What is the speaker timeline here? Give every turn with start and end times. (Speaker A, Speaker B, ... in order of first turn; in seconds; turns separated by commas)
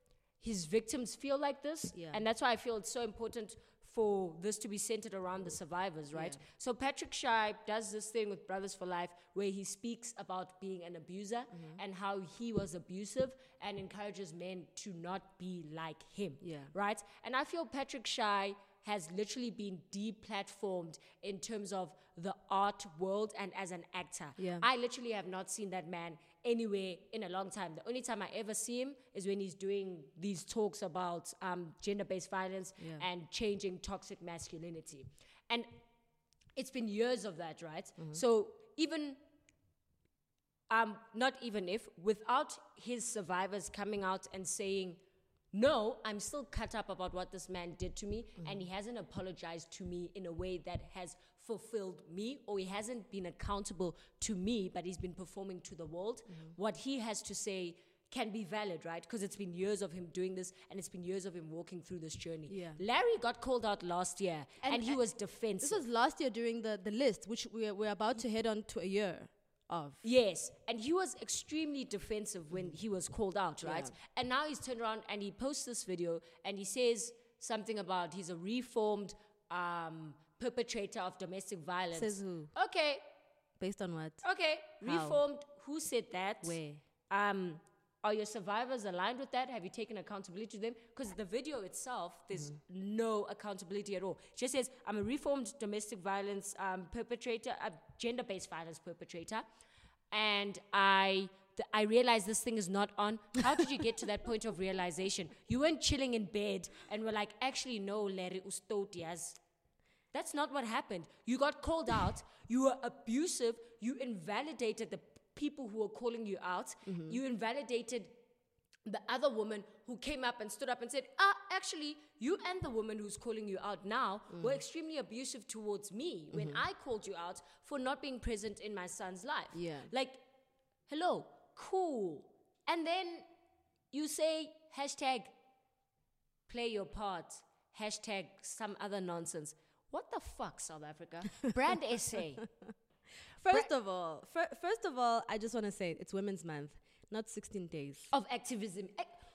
Speaker A: 0.4-35.7, Speaker B: 1.9-2.2, Speaker B: 6.1-6.4, Speaker B: 11.5-11.8, Speaker B: 16.4-16.7, Speaker B: 24.4-24.6, Speaker B: 32.8-33.0, Speaker A: 36.5-39.2, Speaker A: 40.7-45.0, Speaker A: 45.5-65.8, Speaker B: 62.5-62.8, Speaker B: 64.6-65.0, Speaker B: 65.6-70.0, Speaker A: 70.0-83.0, Speaker B: 73.6-73.9, Speaker B: 81.9-82.5, Speaker B: 83.6-84.2, Speaker A: 84.2-99.4, Speaker B: 84.8-85.2, Speaker B: 86.4-86.8, Speaker A: 100.1-109.4, Speaker A: 110.1-118.1, Speaker B: 116.8-117.2, Speaker A: 118.8-130.2, Speaker B: 124.3-124.6, Speaker B: 126.3-126.6, Speaker B: 129.5-129.9, Speaker A: 130.9-133.2, Speaker A: 133.9-135.3, Speaker A: 136.5-142.4, Speaker B: 143.4-148.1, Speaker A: 148.1-149.1